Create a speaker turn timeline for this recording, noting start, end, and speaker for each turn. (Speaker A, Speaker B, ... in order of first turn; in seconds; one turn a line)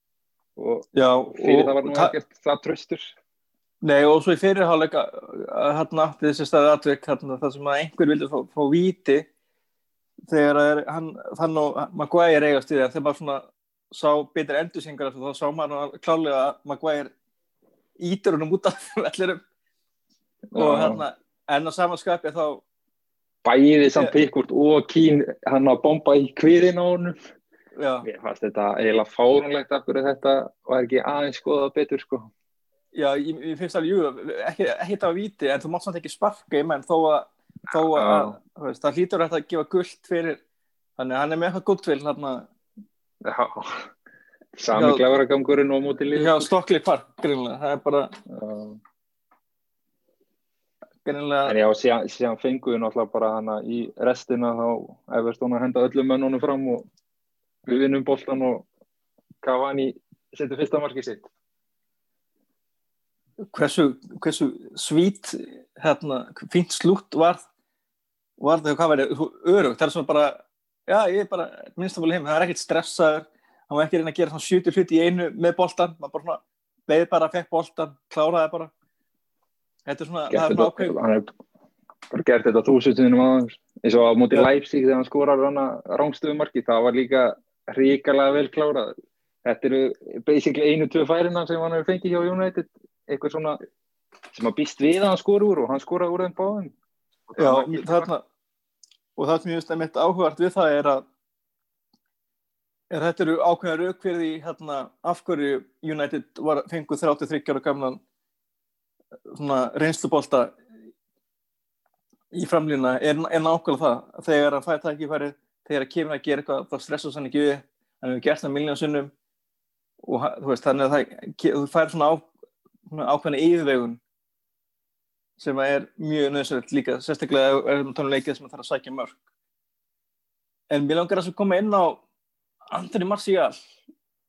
Speaker A: 0.6-3.1
Speaker B: 0.9-2.1
Speaker B: 3.8-9.3
Speaker B: 10.3-17.1
Speaker B: 18.0-19.4
Speaker A: 20.5-21.0
Speaker B: 20.6-22.6
Speaker A: 23.4-27.1
Speaker B: 27.8-28.1
Speaker A: 28.0-32.3
Speaker B: 32.9-40.4
Speaker A: 37.7-38.4
Speaker B: 41.0-42.5
Speaker A: 43.2-43.9
Speaker A: 44.5-46.5
Speaker B: 44.7-45.0
Speaker B: 46.1-48.1
Speaker A: 48.3-48.8
Speaker B: 51.0-51.5
Speaker A: 51.5-56.9
Speaker A: 57.6-58.6
Speaker A: 59.4-61.2
Speaker B: 63.5-67.4
Speaker B: 68.4-78.7
Speaker B: 79.8-80.9
Speaker A: 80.3-81.2
Speaker A: 82.1-88.9
Speaker A: 89.4-93.6
Speaker A: 94.3-96.7
Speaker A: 97.3-98.1
Speaker B: 97.4-98.2
Speaker B: 99.2-101.0
Speaker B: 102.9-108.0
Speaker B: 109.3-110.5
Speaker B: 112.3-119.1
Speaker B: 120.0-122.3
Speaker B: 122.9-124.0
Speaker B: 125.4-129.2
Speaker B: 130.7-132.0
Speaker B: 132.7-133.6